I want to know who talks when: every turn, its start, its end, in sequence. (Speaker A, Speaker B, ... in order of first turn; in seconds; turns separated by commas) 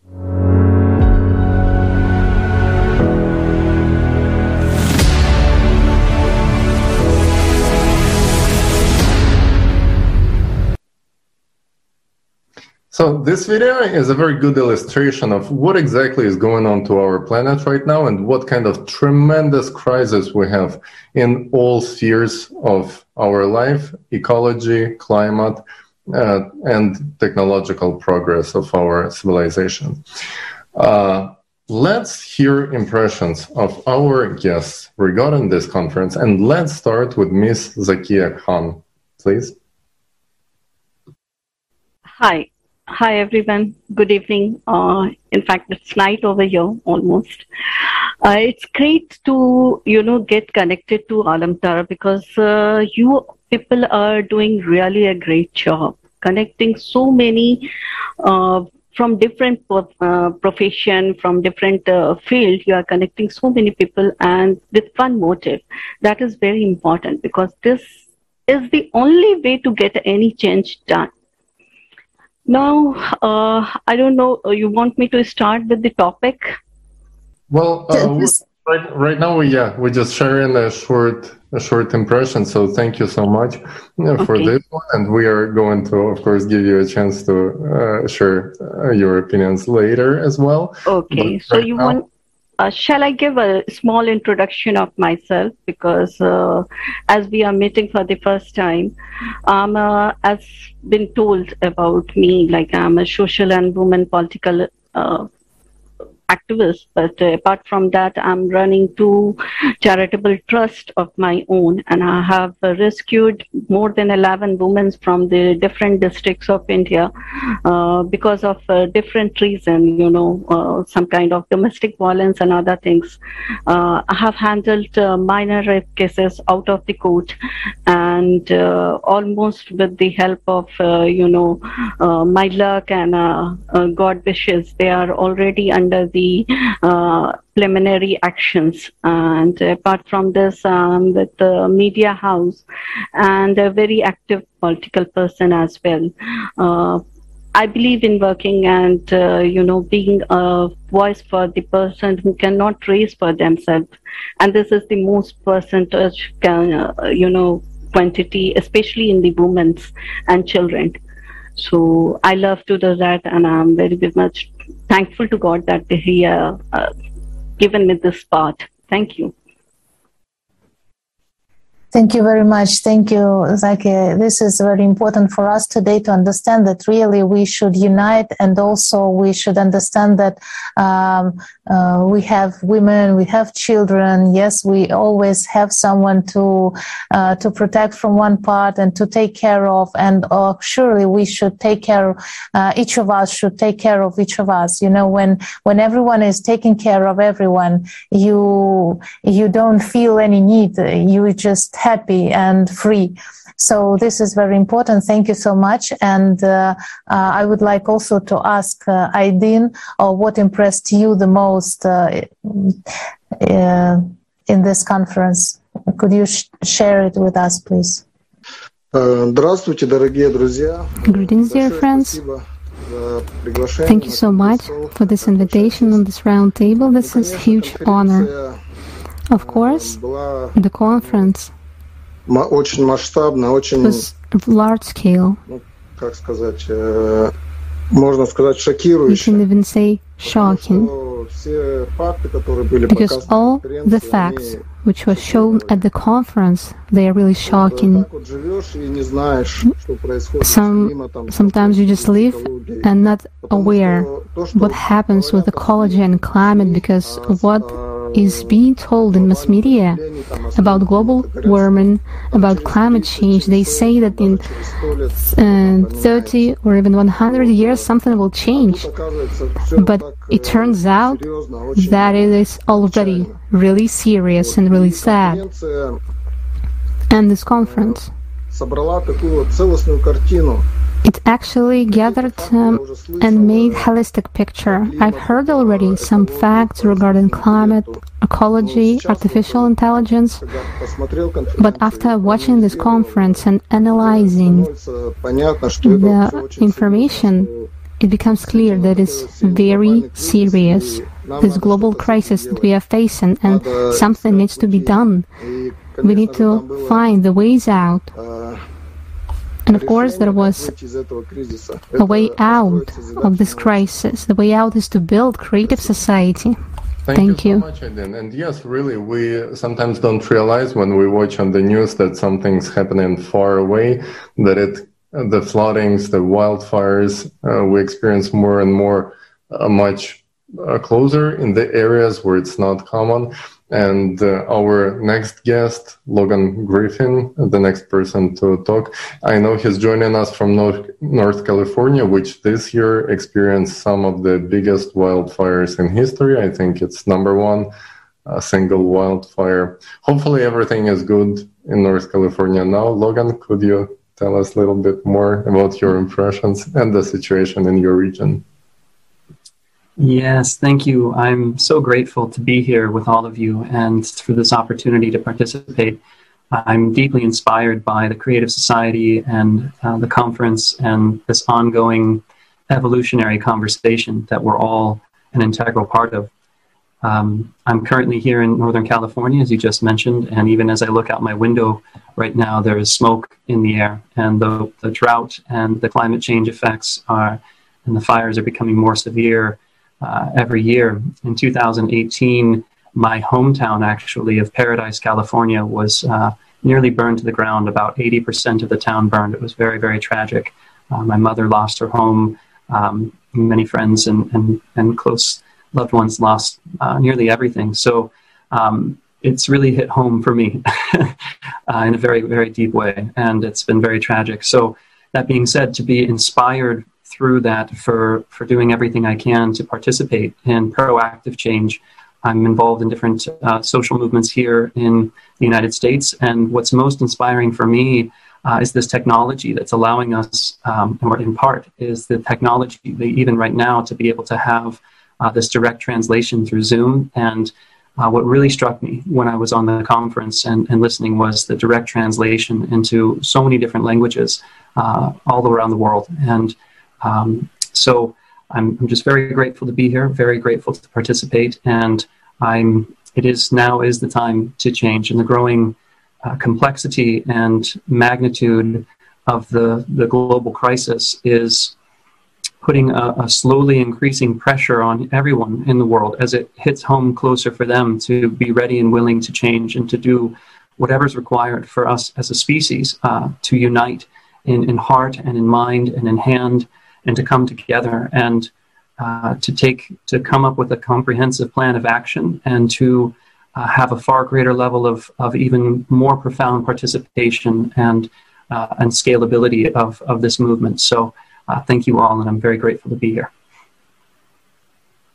Speaker A: 12.9-30.0, Speaker A: 30.8-39.5, Speaker B: 42.2-47.5, Speaker B: 48.2-57.7, Speaker B: 58.2-71.1, Speaker B: 72.5-76.5, Speaker A: 77.5-92.0, Speaker C: 77.9-78.3, Speaker B: 84.2-84.5, Speaker B: 90.9-92.0, Speaker B: 92.6-98.9, Speaker B: 99.5-105.3, Speaker B: 106.3-117.1, Speaker B: 117.6-127.3, Speaker B: 127.9-142.6, Speaker B: 143.2-147.0, Speaker B: 147.5-161.0, Speaker B: 161.6-166.9, Speaker B: 167.6-169.3, Speaker C: 171.9-212.8, Speaker C: 213.4-218.0, Speaker D: 218.9-226.0, Speaker E: 221.1-222.2, Speaker E: 223.8-228.3, Speaker D: 226.9-228.6, Speaker E: 229.3-230.0, Speaker D: 229.4-231.3, Speaker E: 230.5-231.5, Speaker D: 232.3-234.1, Speaker E: 233.8-235.4, Speaker D: 235.5-237.3, Speaker D: 237.9-239.4, Speaker E: 239.1-240.9, Speaker D: 240.2-245.8, Speaker E: 242.9-248.1, Speaker D: 247.4-266.5, Speaker E: 250.4-260.0, Speaker E: 260.5-264.5, Speaker E: 265.2-268.9, Speaker D: 267.2-267.9, Speaker D: 268.5-273.4, Speaker E: 269.8-271.2, Speaker E: 271.8-275.4, Speaker D: 274.3-276.0, Speaker E: 277.1-278.1, Speaker D: 277.5-278.0, Speaker D: 278.5-280.6, Speaker E: 281.0-290.4, Speaker D: 281.8-283.9, Speaker D: 284.6-288.0, Speaker D: 288.6-297.7, Speaker E: 291.6-294.7, Speaker E: 295.8-297.5, Speaker E: 298.0-305.3, Speaker D: 298.4-302.7, Speaker D: 303.4-307.1, Speaker E: 306.0-308.1, Speaker D: 308.1-308.6, Speaker E: 309.7-310.7, Speaker D: 309.7-313.9, Speaker E: 312.0-316.6, Speaker D: 315.6-316.0, Speaker A: 317.1-347.7, Speaker E: 317.1-317.6, Speaker A: 348.2-358.4, Speaker F: 360.0-366.0, Speaker F: 366.5-376.3, Speaker F: 377.0-411.1, Speaker F: 411.7-461.7, Speaker F: 462.6-493.3